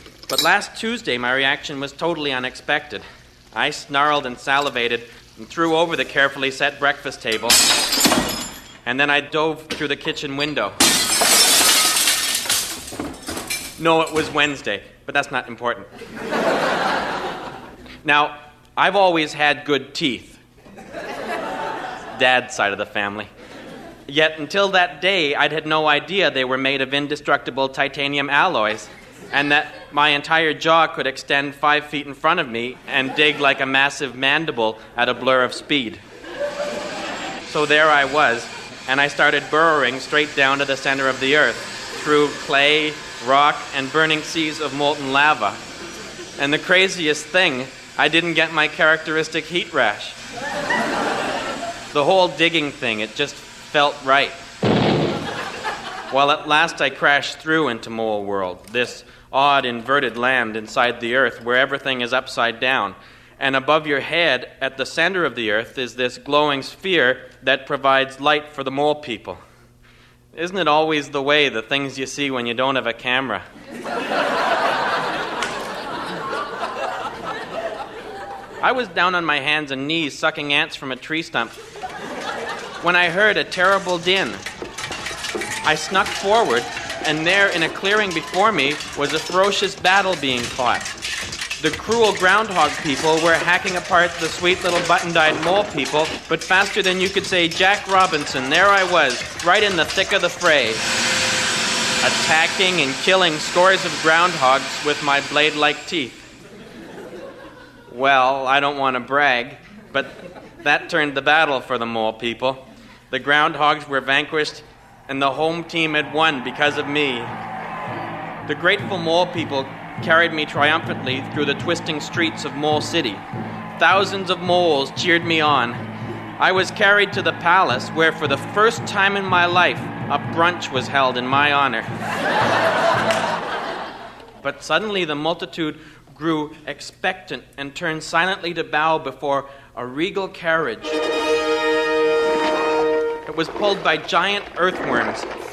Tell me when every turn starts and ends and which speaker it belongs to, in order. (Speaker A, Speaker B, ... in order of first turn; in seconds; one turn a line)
Speaker A: 0.3-7.6
Speaker A: 8.8-10.8
Speaker A: 13.8-15.9
Speaker A: 18.0-20.4
Speaker A: 22.1-23.3
Speaker A: 24.1-36.0
Speaker A: 37.5-45.6
Speaker A: 46.4-50.2
Speaker A: 51.9-54.4
Speaker A: 56.1-69.4
Speaker A: 70.3-73.4
Speaker A: 78.6-81.6
Speaker A: 82.8-84.4
Speaker A: 85.6-91.0
Speaker A: 91.6-100.8
Speaker A: 102.0-106.2
Speaker A: 107.9-117.3
Speaker A: 118.5-123.2
Speaker A: 123.8-125.8
Speaker A: 126.4-131.9
Speaker A: 134.4-141.0
Speaker A: 143.2-145.3